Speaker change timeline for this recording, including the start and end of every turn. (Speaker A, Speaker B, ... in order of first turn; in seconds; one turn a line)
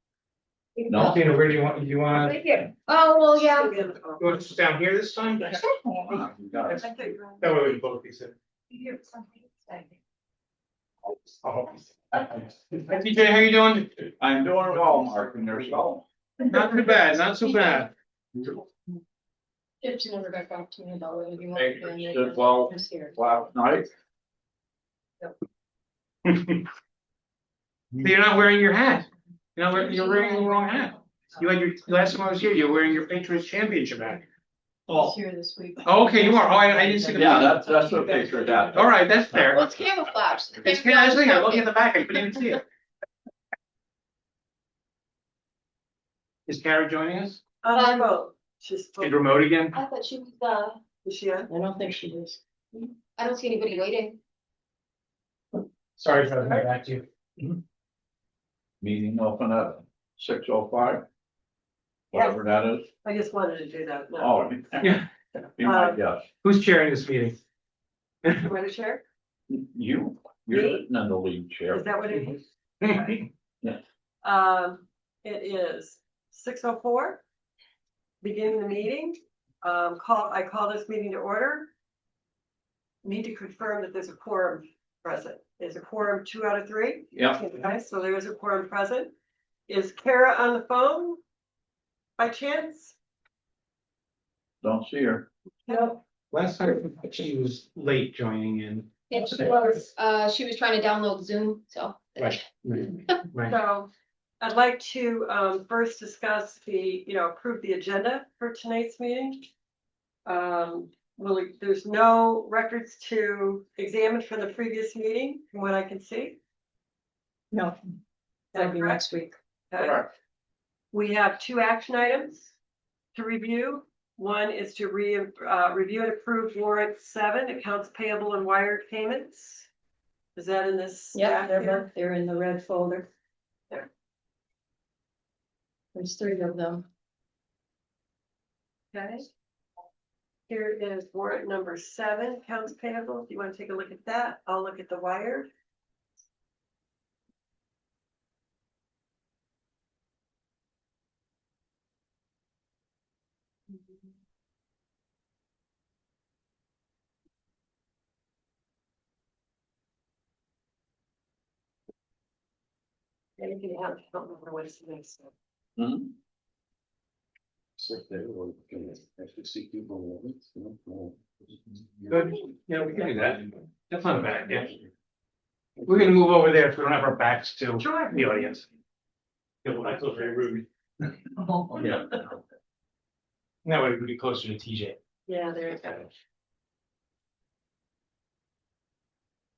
Speaker A: 0.8-1.1
Speaker B: 0.9-1.3
Speaker C: 1.0-2.4
Speaker A: 2.1-3.7
Speaker D: 3.4-4.4
Speaker C: 4.2-5.6
Speaker B: 5.8-6.8
Speaker D: 6.8-7.5
Speaker C: 7.4-8.3
Speaker D: 8.7-9.8
Speaker C: 11.4-11.9
Speaker C: 12.7-13.9
Speaker B: 14.2-16.1
Speaker C: 16.4-17.9
Speaker E: 19.8-23.2
Speaker B: 21.5-23.9
Speaker C: 26.2-26.6
Speaker C: 28.0-34.2
Speaker E: 29.7-31.2
Speaker E: 34.9-38.5
Speaker C: 35.8-37.6
Speaker B: 37.1-38.9
Speaker D: 37.7-38.7
Speaker C: 38.7-39.7
Speaker A: 39.5-41.7
Speaker C: 40.6-42.6
Speaker C: 46.5-47.4
Speaker D: 47.6-49.2
Speaker A: 47.7-48.1
Speaker C: 49.0-49.8
Speaker A: 49.7-50.8
Speaker D: 51.0-51.5
Speaker E: 51.5-52.4
Speaker A: 52.7-54.2
Speaker C: 56.0-57.0
Speaker B: 58.8-61.0
Speaker B: 62.1-62.9
Speaker D: 63.0-64.4
Speaker B: 64.2-65.0
Speaker B: 65.6-66.2
Speaker D: 65.6-66.0
Speaker C: 66.4-67.4
Speaker C: 68.2-68.5
Speaker D: 68.4-69.0
Speaker B: 69.5-71.8
Speaker D: 70.5-70.8
Speaker D: 71.7-73.2
Speaker C: 72.8-73.2
Speaker D: 74.2-77.2
Speaker D: 78.2-81.7
Speaker D: 83.0-89.1
Speaker B: 87.1-87.4
Speaker D: 89.7-91.2
Speaker D: 92.2-93.0
Speaker B: 94.6-95.3
Speaker D: 95.7-96.0
Speaker C: 96.3-99.5
Speaker A: 99.1-102.4
Speaker C: 102.2-103.5
Speaker D: 103.4-103.9
Speaker D: 104.4-109.5
Speaker D: 110.2-116.4
Speaker E: 117.5-117.8
Speaker D: 118.5-119.1
Speaker E: 118.5-119.3
Speaker D: 119.7-120.0
Speaker B: 119.8-120.1
Speaker D: 120.9-122.5
Speaker D: 123.1-129.7
Speaker D: 130.3-131.9
Speaker E: 131.1-133.1
Speaker E: 135.9-136.8
Speaker D: 138.9-139.3
Speaker D: 140.5-145.5
Speaker D: 163.4-165.3
Speaker B: 165.8-166.1
Speaker B: 167.8-172.1
Speaker C: 172.1-174.7
Speaker C: 175.8-178.6
Speaker D: 177.8-178.2
Speaker C: 179.6-180.7
Speaker B: 181.7-182.2
Speaker C: 183.6-185.0
Speaker D: 185.3-186.1